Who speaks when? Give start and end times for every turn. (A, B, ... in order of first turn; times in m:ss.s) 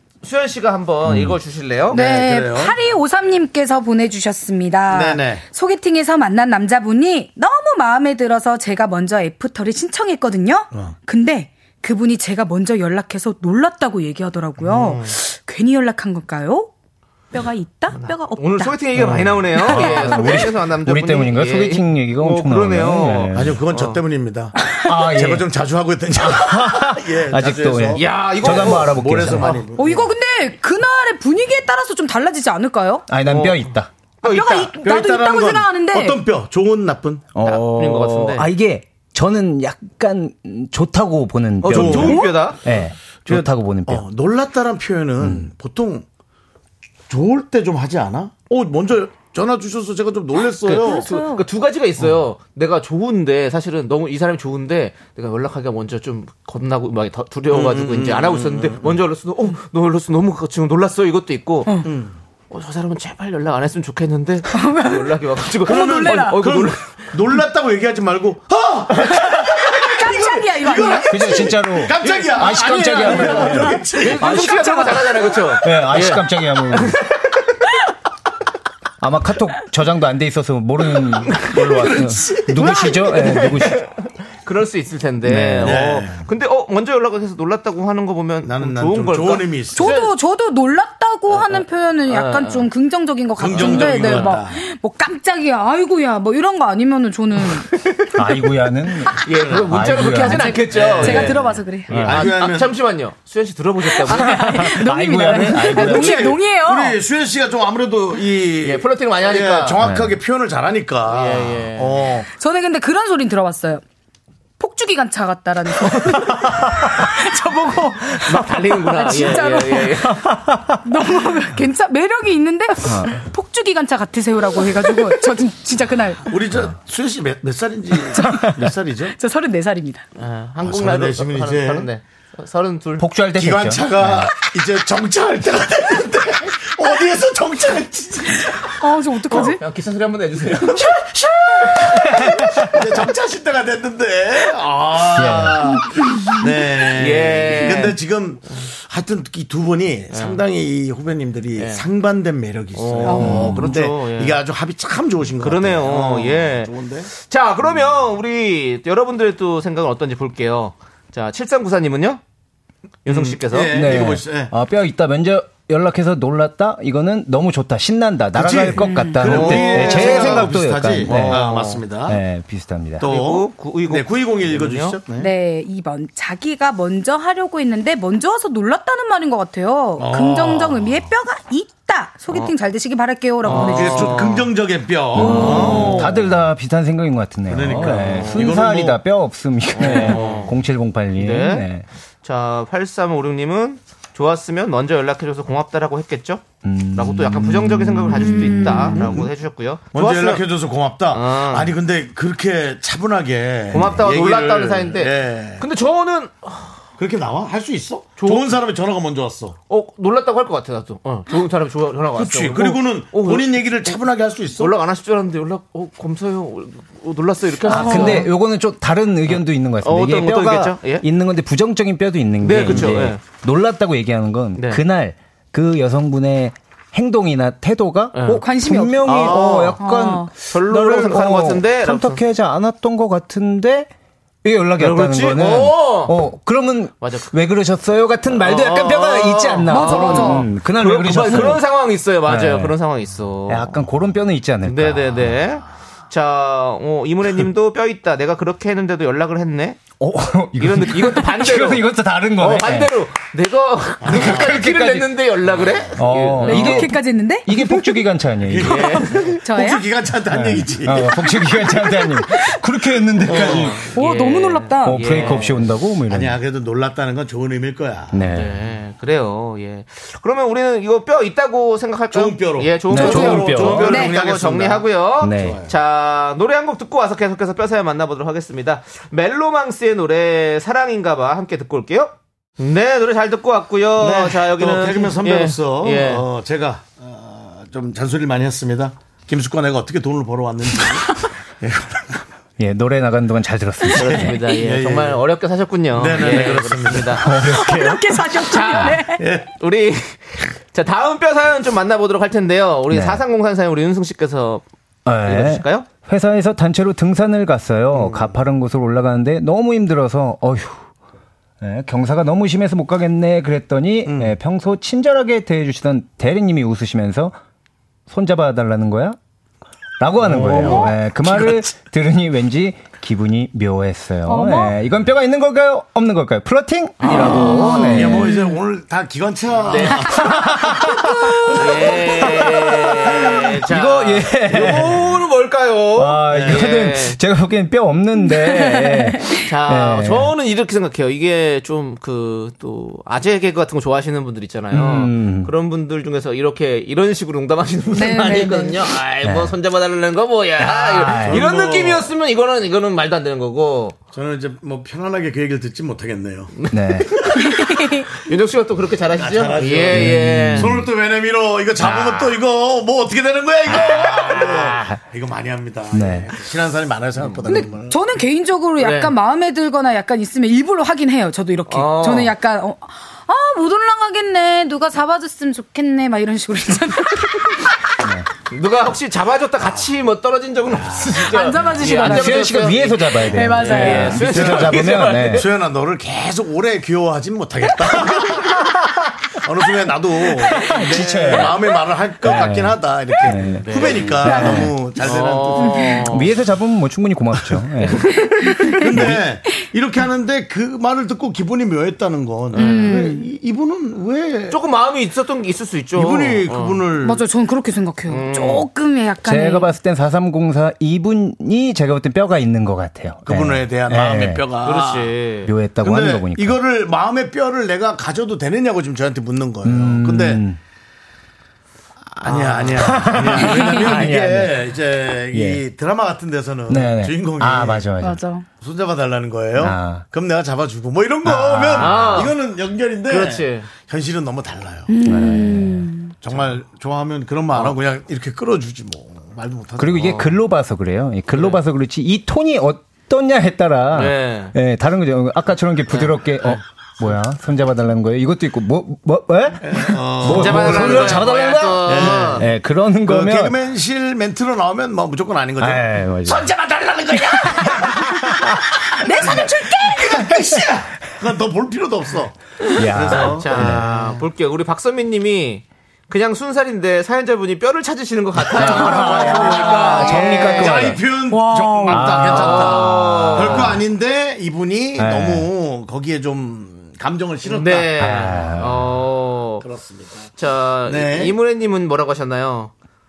0:00.2-0:02.0 A
0:01.1-0:01.4 B
0:01.9-0:02.8 C
0:01.9-0:16.7 D
0:04.9-0:05.4 C
0:14.7-0:15.1 A
0:17.3-0:18.9 D
0:17.9-0:24.0 A
0:18.9-0:23.6 B
0:19.6-0:20.4 D
0:23.3-0:30.1 C
0:24.8-0:25.5 B
0:26.2-0:29.6 B
0:27.9-0:29.6 A
0:29.7-0:33.1 D
0:33.1-0:33.9 B
0:33.2-0:34.7 A
0:34.2-0:36.2 D
0:34.7-0:37.3 C
0:37.3-0:44.1 B
0:37.4-0:38.5 A
0:41.6-0:42.6 A
0:41.7-0:42.2 C
0:42.0-0:42.5 D
0:43.3-0:46.1 C
0:45.2-0:45.5 B
0:47.1-0:51.1 C
0:50.6-1:01.8 A
0:50.7-0:51.4 D
0:57.5-0:59.0 C
1:01.8-1:02.2 C
1:02.5-1:07.1 A
1:04.5-1:06.4 D
1:05.6-1:14.3 C
1:09.7-1:11.3 D
1:11.1-1:14.8 B
1:12.0-1:17.0 A
1:14.2-1:15.4 D
1:15.6-1:17.0 B
1:19.0-1:23.9 B
1:21.3-1:21.7 A
1:21.5-1:22.8 C
1:22.6-1:30.1 A
1:25.2-1:25.9 B
1:25.6-1:26.3 C
1:28.4-1:29.9 C
1:29.8-1:37.7 D
1:31.3-1:32.7 A
1:33.4-1:34.6 C
1:33.5-1:34.3 A
1:37.7-1:38.0 A
1:38.2-1:41.3 B
1:39.2-1:44.7 A
1:40.0-1:42.0 D
1:40.7-1:42.8 C
1:41.9-1:42.3 B
1:43.9-1:47.0 D
1:44.2-1:46.4 B
1:45.6-1:52.3 C
1:48.6-1:49.8 A
1:49.8-1:50.2 B
1:51.1-1:52.0 A
1:52.3-1:53.8 D
1:54.6-2:00.1 D
1:55.9-1:57.1 B
1:58.2-2:00.2 A
2:00.1-2:00.8 B
2:00.8-2:06.4 D
2:02.8-2:03.2 B
2:06.3-2:09.2 C
2:08.1-2:10.0 D
2:10.2-2:13.1 A
2:10.6-2:11.9 C
2:13.0-2:14.3 B
2:13.3-2:18.7 C
2:18.4-2:19.6 D
2:19.3-2:20.9 A
2:20.7-2:37.1 C
2:22.4-2:22.8 B
2:25.2-2:25.7 B
2:26.9-2:28.0 A
2:30.1-2:30.4 A
2:31.6-2:31.8 A
2:32.8-2:34.4 A
2:33.1-2:33.4 D
2:33.2-2:33.6 B
2:35.4-2:42.2 A
2:43.0-2:43.8 A
2:43.1-2:44.5 C
2:43.7-2:51.5 B
2:48.3-2:52.2 C
2:48.8-2:49.2 D
2:49.2-2:50.5 A
2:51.0-2:51.8 A
2:52.1-2:53.0 B
2:53.0-2:55.3 C
2:53.0-2:55.0 A
2:55.2-3:04.3 D
3:00.0-3:01.1 C
3:03.4-3:04.5 A
3:03.5-3:06.2 C
3:05.1-3:11.9 B
3:05.2-3:06.2 A
3:07.5-3:09.0 C
3:07.7-3:08.5 A
3:09.7-3:10.5 A
3:09.8-3:10.5 C
3:11.2-3:11.7 A
3:12.2-3:20.4 A
3:16.6-3:18.8 B
3:18.2-3:19.0 D
3:18.9-3:19.3 C
3:19.9-3:25.6 C
3:21.1-3:21.7 A
3:23.7-3:26.8 A
3:27.0-3:29.6 C
3:28.2-3:28.5 A
3:29.7-3:34.0 A
3:32.1-3:34.8 C
3:34.6-3:38.3 A
3:37.7-3:53.9 B
3:37.7-3:38.3 D
3:39.3-3:41.0 A
3:42.4-3:43.2 A
3:44.6-3:44.8 A
3:48.1-3:48.4 A
3:48.3-3:49.2 D
3:49.0-3:49.8 A
3:49.8-3:50.3 D
3:50.4-3:52.2 A
3:54.4-4:01.7 B
3:54.8-3:56.2 A
3:57.0-3:57.3 A
3:58.3-4:03.8 A
3:59.7-4:00.5 D
4:02.2-4:02.8 B
4:03.5-4:05.4 B
4:04.6-4:09.8 A
4:10.0-4:13.0 B
4:10.6-4:16.9 A
4:14.0-4:14.5 C
4:14.1-4:15.2 B
4:15.9-4:19.0 B
4:16.4-4:18.0 D
4:18.4-4:21.2 C
4:18.6-4:19.4 A
4:19.4-4:19.9 D
4:20.3-4:23.9 B
4:23.2-4:23.8 C
4:23.3-4:25.7 A
4:23.9-4:25.1 D
4:24.8-4:26.4 B
4:26.1-4:28.2 C
4:28.1-4:28.6 B
4:28.3-4:46.2 A
4:32.1-4:35.7 C
4:32.9-4:34.0 B
4:33.9-4:34.1 D
4:35.2-4:35.6 B
4:44.0-4:52.2 C
4:52.6-4:54.4 B
4:54.0-4:57.7 A
4:54.2-4:55.2 C
4:55.9-4:57.3 C
4:57.1-4:58.2 B
4:57.5-4:59.2 D
4:58.3-5:04.6 A
4:59.1-4:59.5 C
5:02.9-5:03.2 B
5:05.1-5:10.9 B
5:05.2-5:05.9 A
5:08.0-5:08.4 C
5:11.6-5:17.4 B
5:14.1-5:14.4 C
5:18.1-5:19.2 B
5:20.0-5:28.4 B
5:20.2-5:21.6 C
5:20.6-5:20.9 D
5:24.3-5:24.7 D
5:27.0-5:28.0 A
5:27.1-5:30.3 C
5:28.2-5:28.5 D
5:29.7-5:30.5 A
5:30.1-5:35.1 B
5:31.5-5:37.2 A
5:32.9-5:33.6 C
5:36.0-5:40.3 B
5:36.3-5:36.6 C
5:38.4-5:39.3 D
5:39.4-5:54.0 A
5:44.7-5:45.5 B
5:47.9-5:48.8 D
5:49.2-5:49.6 B
5:50.6-5:51.4 B
5:51.2-5:52.1 C
5:54.1-5:56.5 C
5:56.5-6:00.8 A
5:56.7-5:57.2 B
5:57.5-5:58.1 D
5:59.2-6:08.0 C
5:59.9-6:00.9 B
6:01.8-6:02.4 A
6:03.7-6:05.0 B
6:03.9-6:04.7 A
6:05.9-6:06.3 B
6:07.4-6:17.7 D
6:08.8-6:09.1 A
6:11.7-6:12.3 A
6:18.0-6:18.3 B
6:18.5-6:25.4 A
6:20.7-6:21.2 C
6:21.2-6:22.6 D
6:21.8-6:25.5 B
6:23.3-6:24.2 D
6:24.0-6:28.6 C
6:28.1-6:28.4 B
6:29.4-6:35.9 C
6:30.4-6:31.6 B
6:32.2-6:35.1 B
6:33.6-6:36.3 A
6:35.6-6:35.9 D
6:36.0-6:38.2 B
6:37.9-6:38.8 A
6:38.8-6:44.6 C
6:38.9-6:39.2 B
6:42.6-6:43.0 A
6:42.6-6:43.3 D
6:44.5-6:46.8 A
6:45.9-6:47.2 C
6:47.0-6:49.7 D
6:48.1-6:48.7 A
6:49.2-6:54.4 B
6:53.3-6:55.1 C
6:54.6-6:55.5 A
6:55.4-6:56.6 B
6:55.8-7:00.4 C
6:59.6-7:00.6 B
7:02.1-7:07.9 C
7:02.2-7:03.2 A
7:02.8-7:04.8 B
7:05.3-7:05.6 B
7:06.7-7:08.2 B
7:08.0-7:08.5 D
7:08.6-7:14.9 C
7:09.6-7:10.0 B
7:11.2-7:12.3 B
7:11.8-7:12.4 A
7:13.1-7:13.7 A
7:14.9-7:16.2 D
7:15.0-7:15.9 B
7:16.2-7:20.1 C
7:19.8-7:33.6 B
7:20.0-7:20.4 A
7:21.3-7:21.6 A
7:23.9-7:24.5 A
7:25.9-7:26.6 A
7:29.6-7:43.9 C
7:30.3-7:32.5 A
7:35.6-7:36.5 B
7:37.3-7:38.6 B
7:39.0-7:40.3 D
7:42.7-7:44.2 B
7:43.1-7:50.9 A
7:48.5-7:51.1 B
7:48.6-7:58.0 C
7:51.3-7:52.1 D
7:51.9-7:53.8 B
7:52.3-7:53.8 A
7:55.0-7:55.5 B
7:57.4-7:59.6 A
7:58.0-7:58.9 B
7:59.6-8:00.3 C
8:00.4-8:02.7 A
8:00.8-8:01.4 C